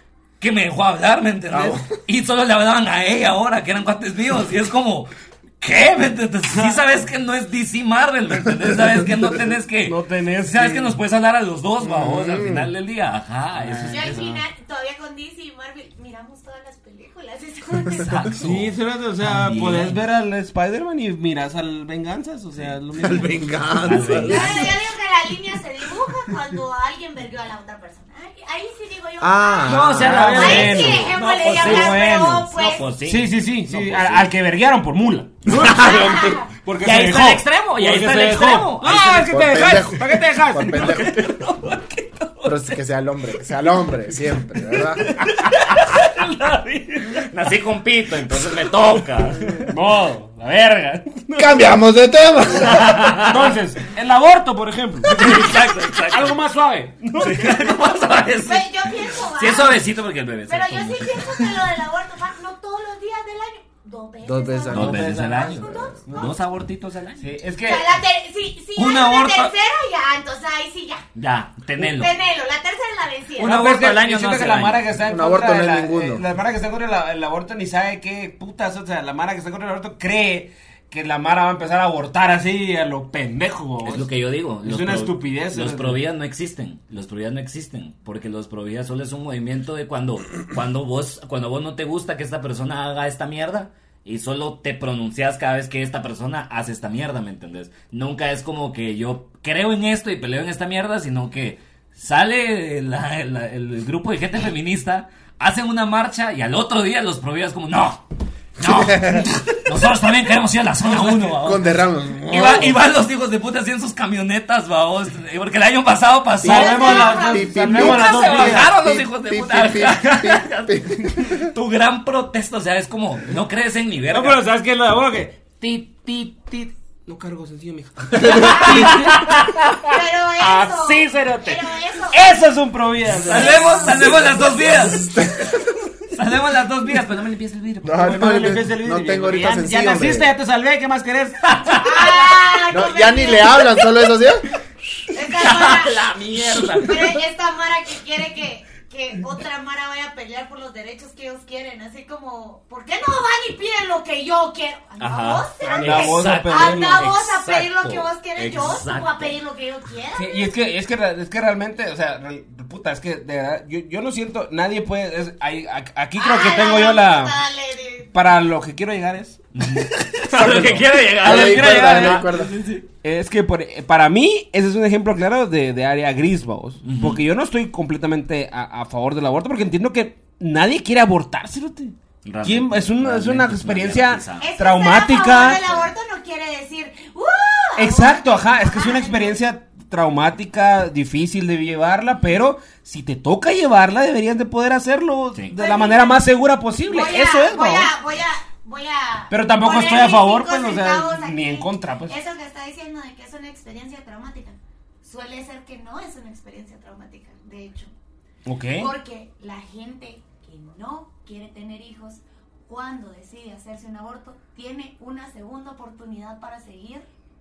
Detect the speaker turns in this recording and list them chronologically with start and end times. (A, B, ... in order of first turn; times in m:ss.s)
0:00.4-0:14.4 A
0:01.5-0:01.8 B
0:09.8-0:11.0 C
0:11.8-0:12.7 B
0:13.5-0:14.3 C
0:13.9-0:18.3 D
0:18.0-0:20.0 A
0:18.4-0:24.7 C
0:23.0-0:24.7 B
0:23.8-0:24.7 A
0:24.3-0:32.9 D
0:29.2-0:30.6 B
0:29.6-0:34.3 A
0:30.0-0:41.3 C
0:35.6-0:35.9 A
0:35.8-0:36.5 D
0:36.8-0:39.5 A
0:39.2-0:41.4 B
0:40.6-0:42.6 A
0:42.4-0:45.1 B
0:44.9-0:47.0 C
0:45.3-0:49.7 A
0:49.7-0:51.7 C
0:51.4-0:53.0 B
0:52.6-0:53.6 A
0:53.1-0:57.7 C
0:55.0-0:56.4 A
0:57.2-1:01.6 A
0:58.4-0:59.8 D
1:00.5-1:06.4 D
1:04.2-1:05.3 B
1:04.7-1:07.4 A
1:04.7-1:06.4 C
1:07.2-1:08.0 C
1:07.6-1:11.0 D
1:08.8-1:09.5 A
1:11.2-1:12.1 A
1:11.8-1:13.6 D
1:13.4-1:14.9 A
1:13.4-1:24.1 C
1:15.1-1:16.2 B
1:23.8-2:04.4 A
1:24.6-1:26.0 C
1:48.6-1:49.4 B
1:51.3-1:52.8 B
1:56.4-1:58.7 C
1:56.4-1:57.6 D
1:56.5-2:01.5 B
2:04.1-2:09.8 C
2:08.2-2:08.6 B
2:08.3-2:08.9 D
2:08.4-2:09.6 A
2:09.9-2:12.4 D
2:10.4-2:11.6 C
2:12.1-2:14.4 C
2:13.1-2:15.1 A
2:13.3-2:14.4 D
2:14.6-2:15.7 B
2:16.1-2:18.2 A
2:17.8-2:20.3 B
2:18.0-2:21.8 C
2:21.5-2:22.2 A
2:21.8-2:23.8 D
2:22.7-2:24.5 B
2:25.1-2:26.0 D
2:25.2-2:27.2 A
2:26.8-2:40.5 D
2:35.0-2:39.4 A
2:35.6-2:37.1 C
2:40.1-2:47.4 C
2:46.2-2:48.1 D
2:48.1-2:49.4 C
2:49.6-2:52.8 A
2:50.2-2:52.4 C
2:51.2-2:52.6 B
2:53.0-3:05.6 C
2:56.8-2:57.2 A
3:02.2-3:04.5 A
3:04.4-3:09.4 D
3:05.3-3:05.9 A
3:07.8-3:17.9 C
3:15.6-3:16.3 D
3:16.9-3:27.9 D
3:19.3-3:22.2 C
3:28.4-3:28.9 C
3:28.8-3:37.1 D